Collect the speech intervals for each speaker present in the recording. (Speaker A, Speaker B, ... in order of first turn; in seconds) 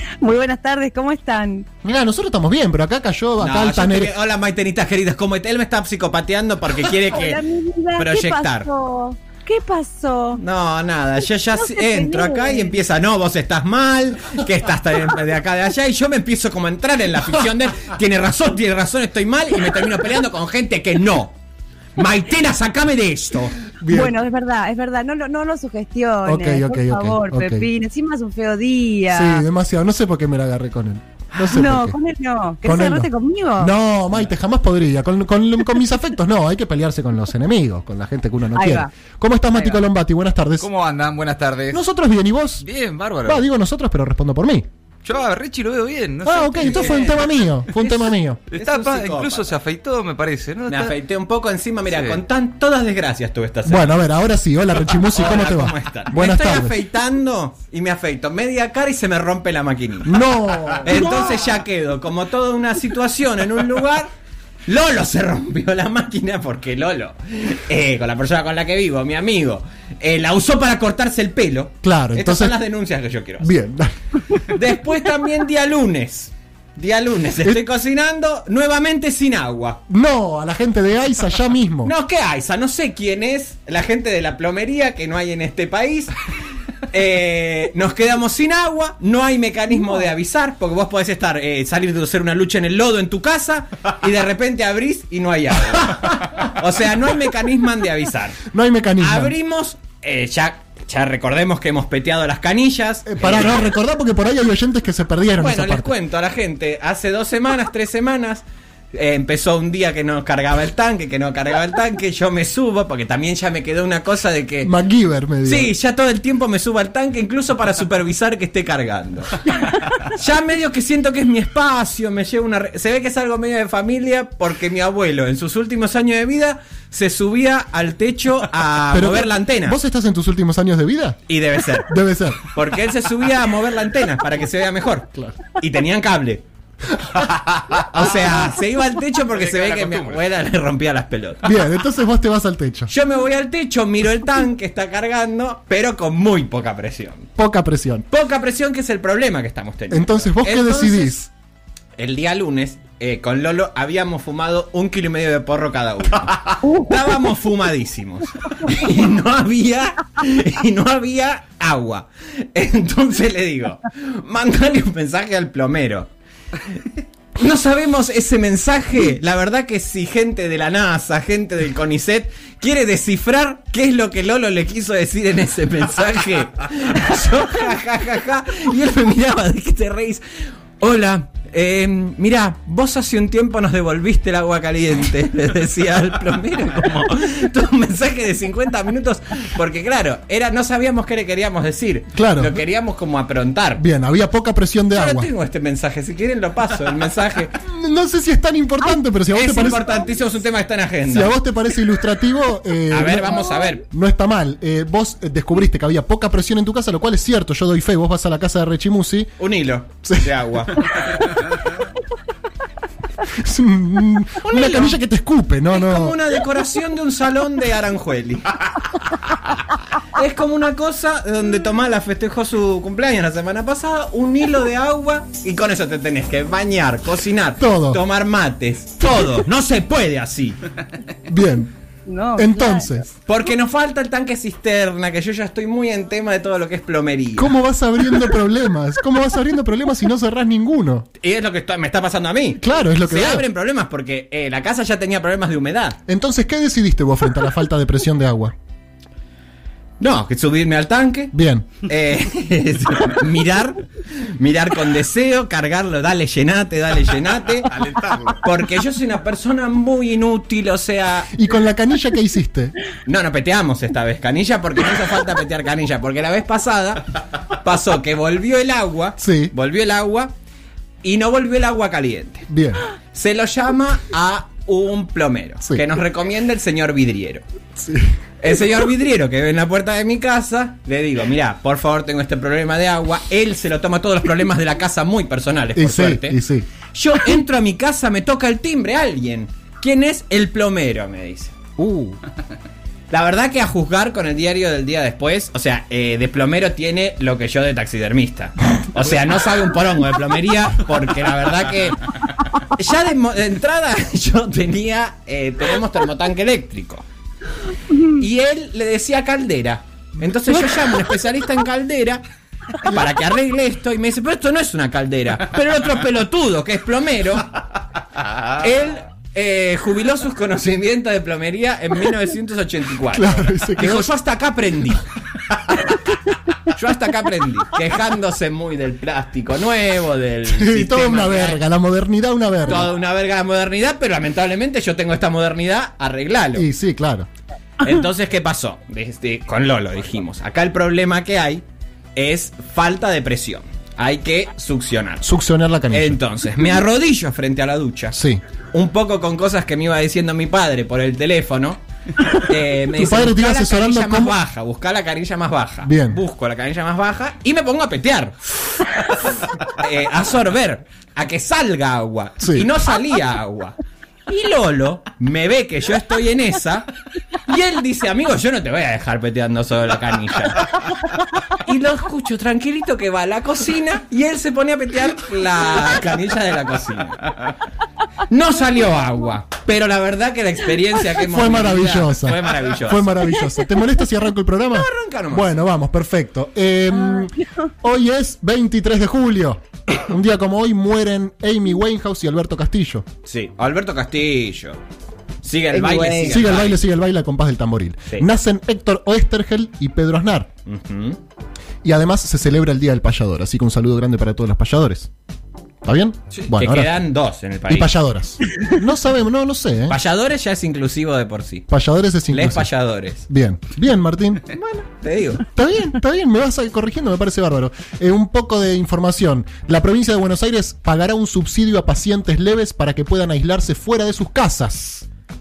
Speaker A: 0.2-1.6, 7.3-10.4, 11.7-12.7, 23.9-29.4, 31.5-33.7, 38.5-38.9, 232.1-232.8, 395.8-396.3
Speaker B: 1.8-4.1, 23.8-24.2, 26.2-27.7, 29.1-32.0, 32.6-40.7, 41.7-42.6, 43.2-44.7, 46.2-48.4, 53.6-56.8, 60.0-61.0, 71.8-72.6, 73.4-73.9, 79.9-81.9, 98.5-99.3, 103.0-105.9, 114.6-115.7, 128.9-131.2, 131.8-132.4, 141.4-142.9, 147.4-148.1, 149.9-151.3, 192.1-192.6, 193.8-195.3, 197.6-199.9, 201.1-209.3, 213.3-216.2, 227.6-228.0, 231.3-231.7, 232.3-233.1, 237.4-241.1, 242.6-243.5, 246.1-248.5, 251.3-251.7, 261.3-262.7, 269.2-269.5, 272.5-272.8, 277.8-278.1, 285.7-286.7, 291.8-292.2, 323.1-324.1, 330.5-332.9, 336.5-337.3, 345.2-346.2, 348.1-348.4, 352.9-354.4, 355.8-356.2, 362.4-362.7, 381.2-393.0, 396.2-400.5, 401.8-405.1, 405.8-407.0, 407.7-410.0, 411.7-412.7, 413.3-414.4, 415.4-425.1
Speaker C: 3.4-7.4, 8.0-8.7, 10.4-21.4, 21.9-23.5, 46.7-49.5, 50.7-54.0, 55.0-60.2, 60.8-64.1, 64.7-73.5, 74.5-79.8, 81.8-86.2, 86.9-98.4, 99.0-103.7, 105.4-114.7, 115.4-129.8, 131.3-136.4, 137.7-141.5, 142.9-147.3, 148.1-151.2, 151.9-166.1, 167.3-180.2, 180.8-193.8, 194.9-197.5, 199.3-201.4, 202.9-203.8, 209.4-211.1, 214.4-215.0, 215.7-218.7, 220.1-230.6, 233.2-237.5, 241.2-246.0, 250.0-257.7, 258.4-261.3, 263.0-270.3, 271.0-272.5, 273.1-277.4, 278.4-286.4, 286.9-291.5, 293.1-307.0, 308.0-312.2, 312.8-317.5, 318.6-325.0, 326.6-331.6, 332.7-336.6, 337.8-345.2, 345.9-348.2, 348.7-363.8, 364.3-366.9, 367.4-370.9, 371.5-377.3, 378.3-383.1, 384.7-385.5, 393.2-394.8, 395.4-396.8, 400.6-401.2, 406.3-407.9, 409.9-411.7, 412.3-413.2, 414.5-415.4
Speaker D: 39.5-39.8, 40.6-41.8, 42.6-43.4, 45.0-47.2, 48.5-51.0, 51.9-52.2, 139.3-140.2, 257.7-258.4